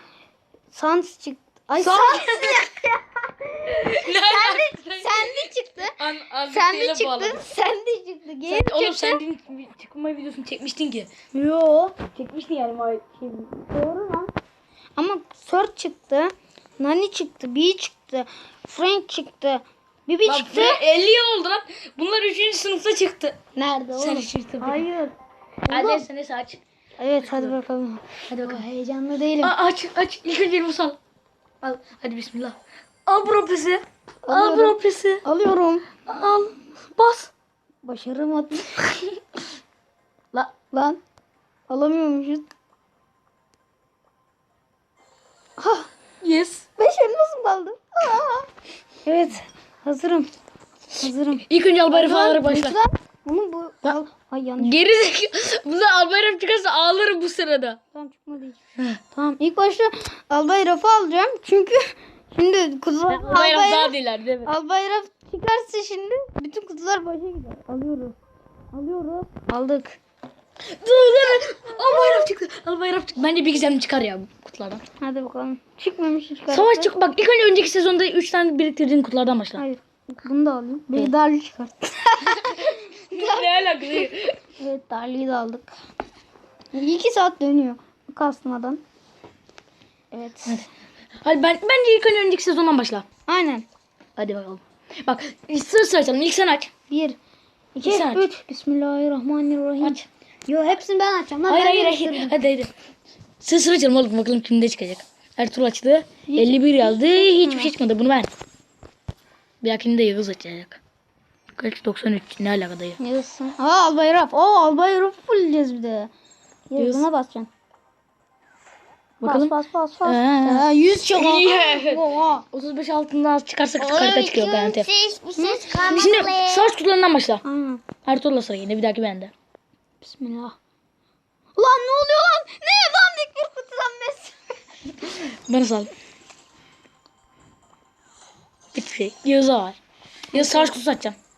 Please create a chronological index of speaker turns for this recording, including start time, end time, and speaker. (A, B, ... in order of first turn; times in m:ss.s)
0:00.7-0:09.2 A
0:01.8-0:02.7 B
0:03.7-0:07.4 B
0:08.5-0:11.1 B
0:11.3-0:12.0 A
0:12.0-0:13.6 B
0:13.7-0:14.3 A
0:15.0-0:20.8 A
0:20.3-0:23.4 B
0:23.6-0:25.1 A
0:24.0-0:24.9 B
0:25.7-0:26.0 A
0:25.7-0:26.6 B
0:27.0-0:29.5 A
0:27.2-0:27.6 B
0:28.3-0:28.6 B
0:29.4-0:31.0 B
0:31.6-0:35.2 B
0:34.2-0:36.0 A
0:36.1-0:37.3 B
0:37.8-0:39.2 A
0:40.7-0:41.0 A
0:41.7-0:42.5 A
0:45.6-0:45.9 A
0:46.2-0:46.7 B
0:46.8-0:48.5 A
0:49.0-0:50.3 A
0:51.0-0:54.8 A
0:51.4-0:52.8 B
0:54.6-0:57.8 B
0:57.9-0:58.6 A
0:59.1-1:08.2 A
1:03.1-1:04.5 B
1:08.7-1:10.0 A
1:10.7-1:14.8 B
1:11.7-1:12.3 A
1:15.0-1:17.1 A
1:16.5-1:19.6 B
1:19.6-1:25.7 A
1:22.2-1:24.4 B
1:26.7-1:28.8 A
1:30.1-1:30.6 A
1:31.2-1:33.0 B
1:33.3-1:33.7 A
1:34.2-1:36.7 B
1:36.9-1:37.2 A
1:37.7-1:42.4 A
1:37.8-1:38.2 B
1:39.8-1:40.1 B
1:41.5-1:42.7 B
1:43.4-1:48.3 B
1:46.3-1:47.7 A
1:49.6-1:50.8 B
1:51.6-1:53.0 B
1:53.0-1:56.1 A
1:56.7-1:57.5 A
1:56.8-1:57.1 B
1:59.2-2:04.9 B
1:59.2-2:02.5 A
2:03.8-2:06.7 C
2:05.4-2:06.2 A
2:05.8-2:07.4 B
2:07.4-2:07.8 A
2:08.0-2:09.3 B
2:10.0-2:10.6 A
2:11.6-2:14.6 A
2:15.0-2:15.9 B
2:18.7-2:19.8 B
2:20.3-2:20.8 A
2:20.3-2:21.2 B